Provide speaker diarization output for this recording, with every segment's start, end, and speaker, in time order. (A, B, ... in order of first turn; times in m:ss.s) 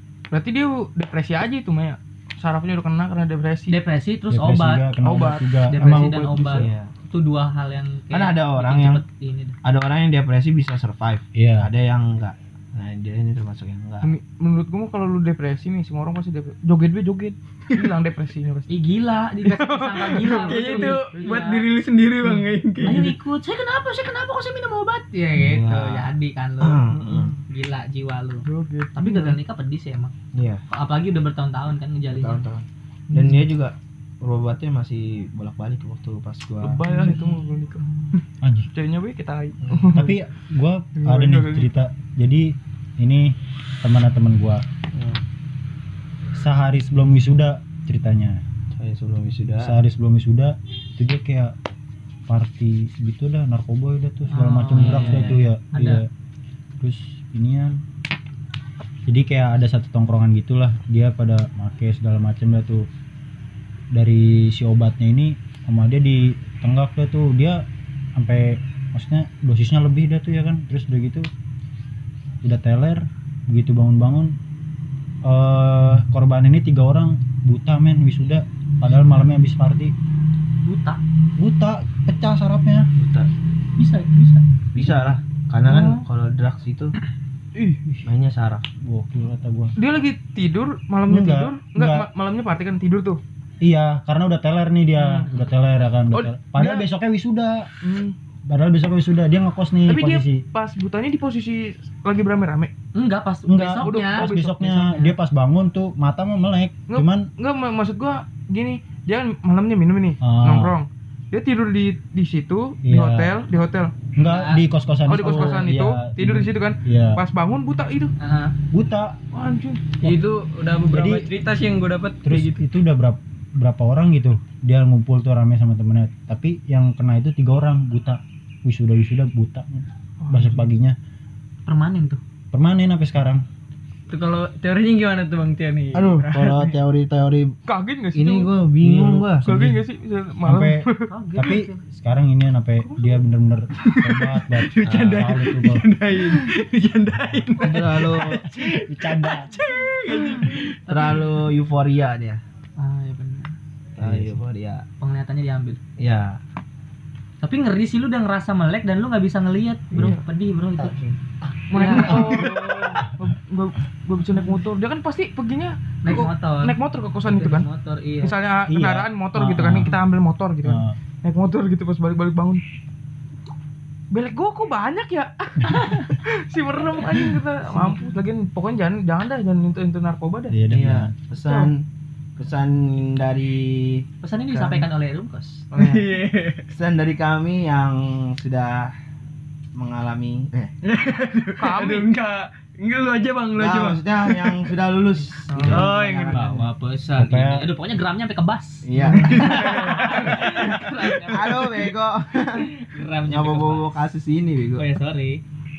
0:00.3-0:03.8 A
0:03.7-0:04.9 B
0:04.3-0:06.3 C
0:05.0-0:06.7 A
0:05.7-0:09.6 B
0:06.5-0:06.9 D
0:08.1-0:09.0 D
0:09.6-0:14.1 D
0:11.4-0:11.7 C
0:14.0-0:18.8 A
0:18.7-0:21.6 B
0:19.4-0:21.4 A
0:20.3-0:23.1 E
0:22.3-0:23.1 A
0:22.8-0:27.0 B
0:25.4-0:27.4 D
0:27.0-0:27.4 A
0:27.5-0:30.1 B
0:28.4-0:29.4 A
0:30.3-0:30.6 D
0:30.7-0:32.4 B
0:32.1-0:36.8 D
0:33.1-0:33.4 A
0:36.6-0:38.2 A
0:36.9-0:37.4 B
0:38.4-0:38.7 C
0:38.7-0:40.2 A
0:39.6-0:40.0 D
0:39.9-0:44.6 C
0:41.0-0:41.7 A
0:44.9-0:45.2 D
0:46.4-0:48.4 C
0:48.7-0:49.8 D
0:49.6-0:51.6 C
0:52.3-0:56.1 C
0:54.3-0:56.0 B
0:54.8-0:55.4 D
0:56.8-0:57.8 C
0:59.1-1:02.9 C
1:03.9-1:11.3 C
1:12.4-1:14.4 C
1:15.2-1:19.9 C
1:20.6-1:21.0 B
1:21.4-1:22.9 C
1:23.0-1:23.3 D
1:23.8-1:24.9 B
1:24.7-1:27.0 D
1:25.7-1:26.0 B
1:27.6-1:28.0 A
1:28.0-1:28.6 D
1:28.8-1:29.8 C
1:29.8-1:33.2 A
1:31.1-1:32.1 C
1:33.6-1:37.7 C
1:35.0-1:35.3 A
1:35.2-1:35.5 B
1:36.1-1:36.9 A
1:37.8-1:38.2 A
1:38.5-1:40.4 C
1:39.9-1:42.7 A
1:43.0-1:45.1 B
1:43.5-1:47.3 C
1:43.7-1:45.0 A
1:46.9-1:53.9 A
1:50.2-1:50.8 C
1:52.8-1:53.3 C
1:54.2-1:57.2 C
1:54.3-1:54.6 B
1:55.1-1:58.1 A
1:58.2-1:58.6 B
1:58.7-1:59.2 C
1:59.3-2:00.1 A
2:00.0-2:02.6 E
2:00.9-2:01.3 C
2:02.2-2:11.0 C
2:10.2-2:10.6 A
2:11.7-2:12.2 B
2:12.5-2:13.4 C
2:14.1-2:16.8 E
2:15.9-2:17.6 D
2:17.7-2:18.5 A
2:18.1-2:19.5 D
2:18.8-2:19.8 C
2:19.4-2:21.1 A
2:20.4-2:20.8 C
2:21.1-2:21.8 B
2:21.4-2:25.9 C
2:22.8-2:23.2 A
2:23.8-2:31.3 E
2:24.9-2:25.3 D
2:27.6-2:28.4 D
2:28.2-2:29.6 C
2:30.9-2:32.4 D
2:30.9-2:31.2 B
2:32.8-2:33.6 B
2:34.0-2:34.4 C
2:34.0-2:34.8 D
2:35.0-2:35.8 B
2:36.0-2:36.4 D
2:37.4-2:41.0 B
2:39.9-2:40.2 A
2:40.8-2:41.2 D
2:41.7-2:47.7 A
2:41.7-2:42.8 B
2:42.2-2:42.5 C
2:44.3-2:44.6 B
2:46.0-2:48.4 B
2:48.2-2:52.6 A
2:48.7-2:50.0 C
2:50.6-2:51.0 C
2:54.1-3:00.6 A
2:55.7-2:56.2 B
2:56.8-2:58.3 B
3:00.5-3:01.1 C
3:00.7-3:01.8 D
3:01.4-3:01.7 A
3:02.4-3:04.9 D
3:04.2-3:05.7 B
3:05.7-3:06.1 A
3:05.7-3:06.7 E
3:06.7-3:08.9 D
3:09.8-3:10.7 D
3:10.8-3:14.7 E
3:11.6-3:12.1 A
3:13.6-3:16.6 D
3:15.5-3:16.4 A
3:15.6-3:21.9 B
3:17.2-3:17.6 C
3:18.8-3:20.4 D
3:19.0-3:20.2 A
3:21.2-3:22.7 D
3:22.6-3:24.0 B
3:23.3-3:24.9 D
3:24.8-3:25.4 B